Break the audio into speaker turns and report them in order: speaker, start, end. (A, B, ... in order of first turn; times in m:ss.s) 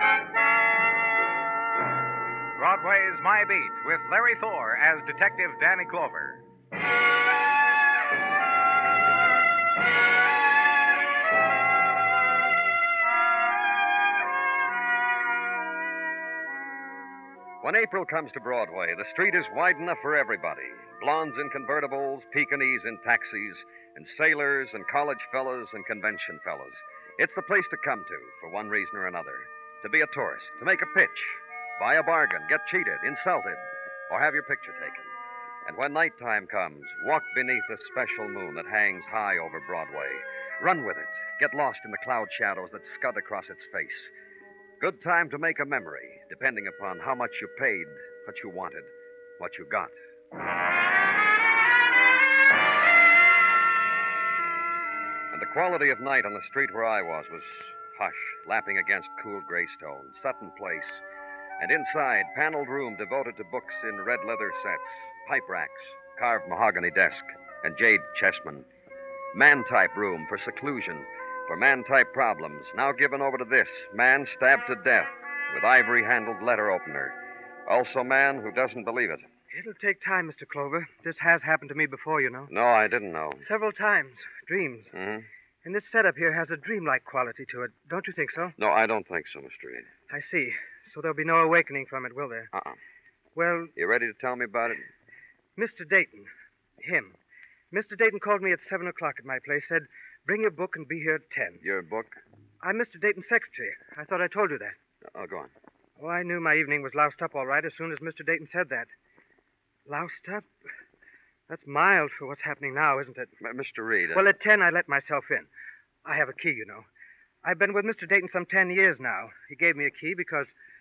0:02.6-0:06.4 A
0:17.6-0:35.1 B
0:35.6-0:44.1 B
0:44.8-0:49.9 B
0:55.3-1:01.0 B
1:01.6-1:08.7 B
1:09.3-1:19.3 B
1:19.5-1:22.5 C
1:22.5-1:23.4 B
1:23.4-1:24.9 C
1:24.9-1:25.3 B
1:25.6-1:28.6 C
1:28.6-1:29.9 B
1:30.1-1:32.5 C
1:33.4-1:33.7 C
1:33.8-1:34.9 B
1:35.6-1:37.2 C
1:37.7-1:41.6 C
1:41.6-1:42.2 B
1:42.6-1:44.8 C
1:45.1-1:45.5 B
1:46.0-1:48.9 C
1:49.9-1:50.5 C
1:51.5-1:53.3 C
1:53.4-1:54.3 B
1:54.1-1:55.5 C
1:56.0-1:56.9 C
1:57.4-2:00.5 C